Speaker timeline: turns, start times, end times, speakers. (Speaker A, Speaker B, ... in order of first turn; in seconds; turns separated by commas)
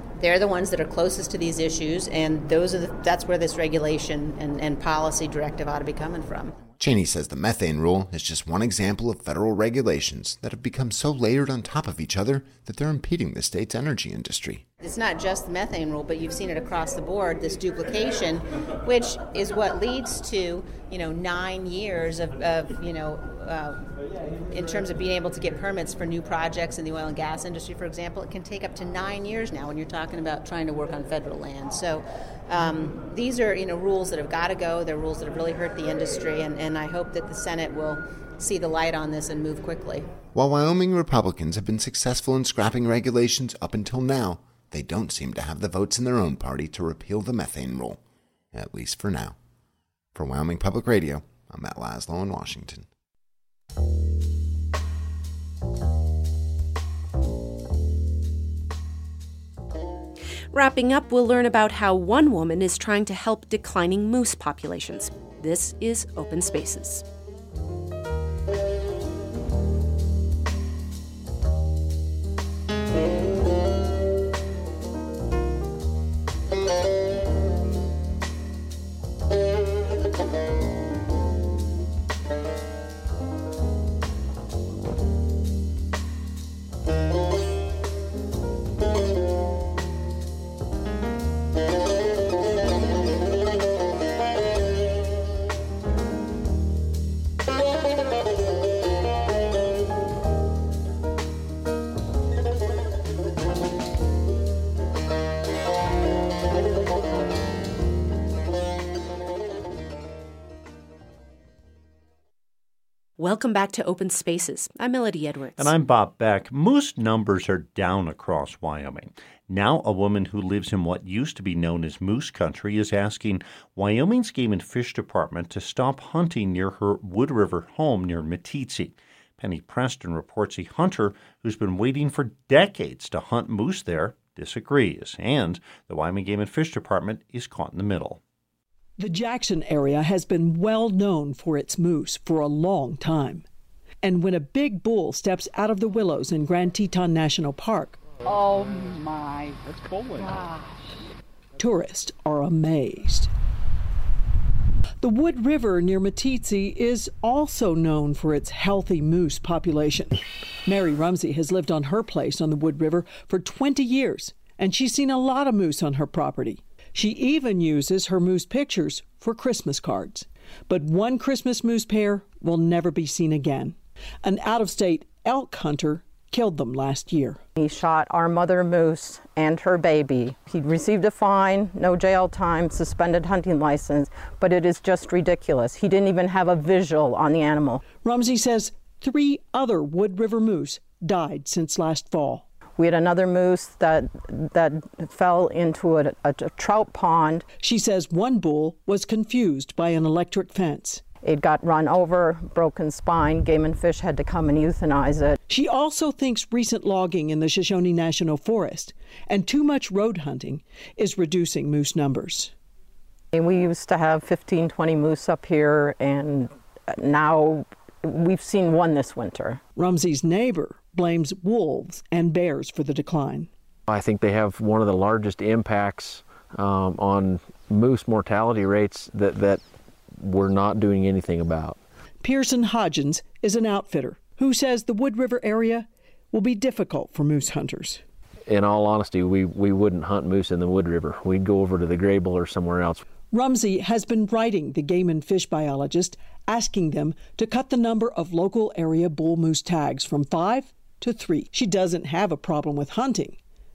Speaker A: 0.2-6.6, Speaker B: 6.8-14.6, Speaker A: 14.8-23.9, Speaker A: 24.5-40.1, Speaker B: 40.3-48.0, Speaker B: 48.5-49.4, Speaker B: 50.1-52.9, Speaker C: 60.5-67.0, Speaker C: 113.2-115.7, Speaker D: 115.6-138.2, Speaker E: 139.0-143.4, Speaker E: 144.0-148.0, Speaker E: 151.6-153.3, Speaker E: 155.0-177.4, Speaker F: 177.6-187.8, Speaker E: 187.9-192.4, Speaker F: 192.8-197.4, Speaker E: 197.6-201.0, Speaker F: 201.2-205.4, Speaker E: 205.5-212.5, Speaker F: 213.3-219.6, Speaker E: 219.7-223.5, Speaker G: 223.9-229.6, Speaker G: 230.2-231.8, Speaker E: 232.2-238.0, Speaker G: 238.5-243.0, Speaker E: 243.3-253.4